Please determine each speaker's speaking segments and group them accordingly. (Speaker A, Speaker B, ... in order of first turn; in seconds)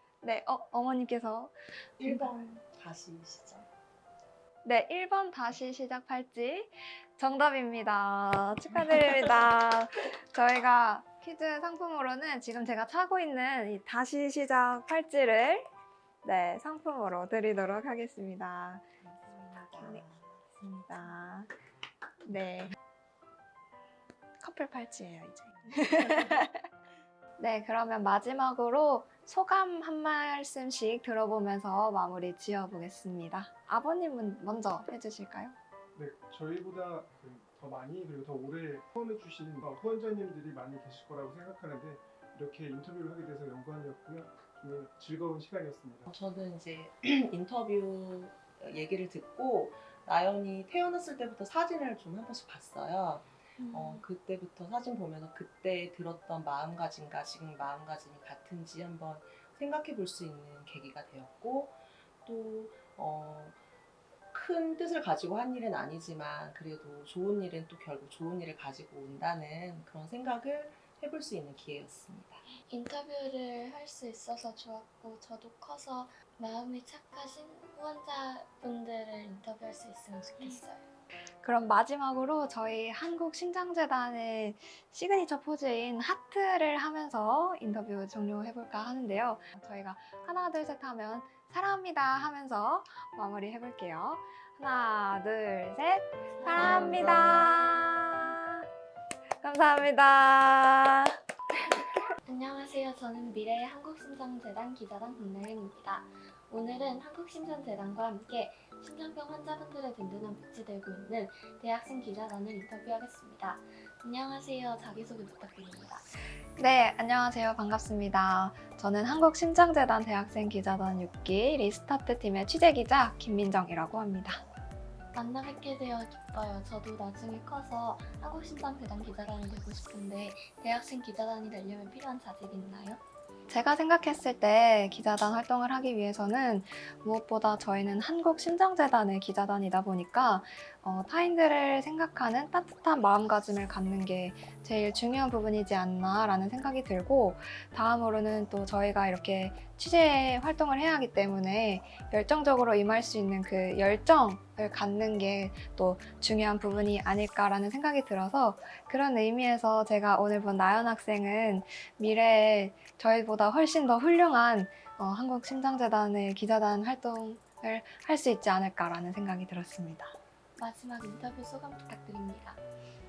Speaker A: 0.2-2.3, 4.6-15.7, 16.2-21.5, 22.2-22.8, 24.4-26.7, 27.4-35.6, 81.4-98.7, 99.4-102.1, 116.6-124.4, 133.5-170.2
Speaker B: 2.0-3.7, 19.0-20.4, 46.1-63.6, 64.3-72.5
Speaker C: 35.9-46.1
Speaker D: 53.6-54.0, 72.6-80.9, 96.4-97.9, 102.2-116.0, 125.1-133.0, 170.6-172.6